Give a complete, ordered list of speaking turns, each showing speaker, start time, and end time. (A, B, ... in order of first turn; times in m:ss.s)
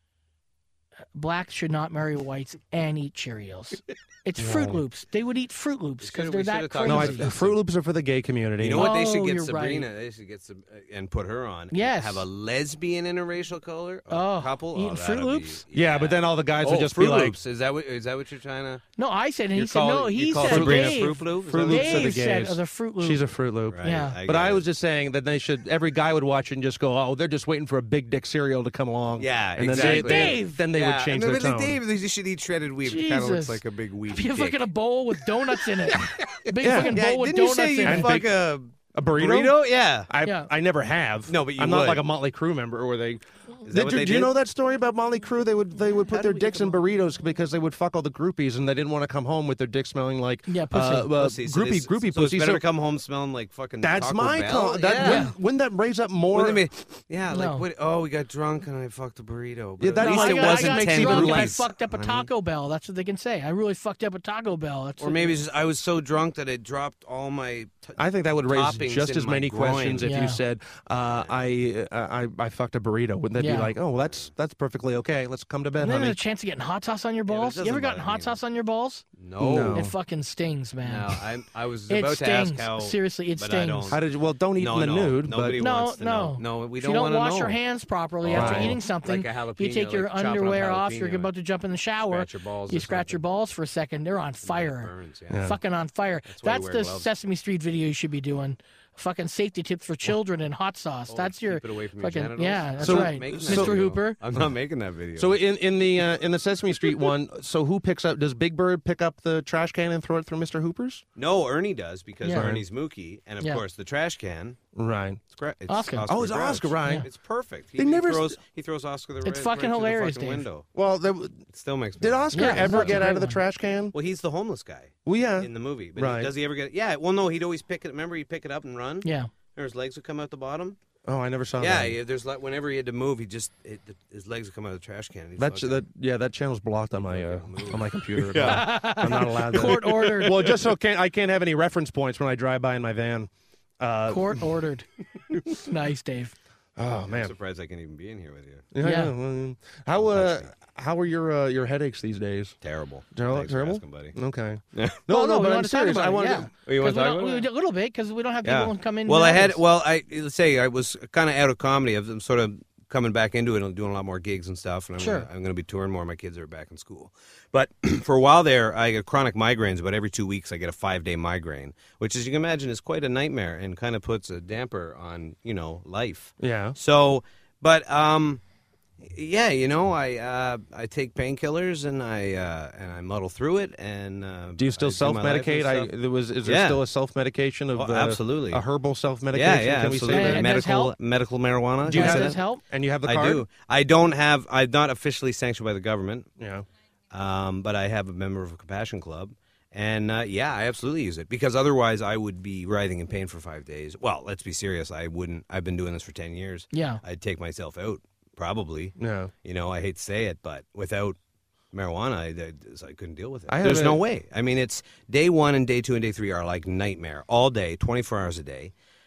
0:01.2-0:07.3 A
0:04.4-0:04.8 B
0:06.0-0:07.6 C
0:06.8-0:09.0 B
0:08.6-0:18.8 C
0:08.7-0:09.9 A
0:11.7-0:12.3 A
0:14.1-0:15.6 A
0:15.7-0:17.4 B
0:19.0-0:23.2 A
0:19.6-0:22.3 C
0:20.4-0:31.8 B
0:23.7-0:24.7 C
0:23.8-0:24.2 A
0:29.2-0:40.1 C
0:29.7-0:30.6 A
0:32.8-0:38.1 A
0:36.6-0:37.0 B
0:37.8-0:52.6 B
0:40.2-0:40.5 A
0:41.3-0:42.1 C
0:43.7-0:44.4 C
0:46.0-0:46.8 C
0:50.5-0:51.1 A
0:51.1-0:55.3 C
0:53.8-0:56.6 B
0:55.0-0:55.4 A
0:56.3-1:02.3 C
0:57.3-0:57.6 A
0:59.8-1:01.6 B
1:00.0-1:05.4 A
1:05.0-1:10.3 C
1:08.0-1:16.2 B
1:10.0-1:10.4 A
1:11.0-1:11.4 C
1:13.4-1:13.7 A
1:14.0-1:14.3 C
1:15.8-1:19.0 A
1:17.3-1:18.4 C
1:19.2-1:19.9 C
1:19.4-1:19.9 B
1:19.7-1:21.2 A
1:20.8-1:27.6 C
1:21.9-1:24.0 A
1:23.9-1:25.6 B
1:25.6-1:44.2 A
1:28.2-1:31.3 C
1:28.3-1:28.8 B
1:32.0-1:33.2 C
1:34.4-1:35.6 C
1:35.3-1:35.6 B
1:36.3-1:37.1 C
1:41.1-1:45.4 C
1:42.8-1:44.5 B
1:45.2-1:51.0 B
1:51.2-1:54.6 C
1:52.2-1:52.5 A
1:52.3-1:52.6 B
1:54.8-1:55.2 B
1:55.2-2:00.7 C
1:55.7-1:56.1 A
1:56.1-1:57.1 B
1:57.8-1:58.4 B
1:59.2-2:00.5 A
2:00.7-2:01.4 B
2:01.5-2:03.2 C
2:02.0-2:04.0 B
2:02.3-2:03.4 A
2:03.9-2:10.8 C
2:05.0-2:06.3 B
2:09.0-2:09.3 A
2:11.0-2:12.0 B
2:11.6-2:15.8 C
2:15.4-2:24.4 B
2:16.9-2:20.6 C
2:18.4-2:20.4 A
2:24.1-2:24.9 A
2:25.5-2:26.4 A
2:26.8-2:27.3 B
2:27.1-2:28.7 C
2:28.7-2:32.6 B
2:28.8-2:29.1 A
2:30.0-2:30.5 C
2:32.6-2:34.2 C
2:33.1-2:36.5 B
2:34.7-2:35.0 C
2:35.1-2:39.6 A
2:36.6-2:37.5 C
2:38.4-2:58.4 C
2:45.0-2:45.3 A
2:56.4-2:56.8 B
2:59.0-3:05.9 C
3:04.6-3:10.5 B
3:06.4-3:06.9 C
3:07.8-3:08.6 C
3:09.3-3:12.5 C
3:10.1-3:11.0 A
3:11.8-3:13.5 B
3:11.9-3:12.6 A
3:13.0-3:16.3 C
3:16.4-3:16.7 B
3:17.1-3:31.2 C
3:26.7-3:27.0 A
3:29.0-3:29.3 B
3:31.7-3:38.7 C
3:33.5-3:34.0 B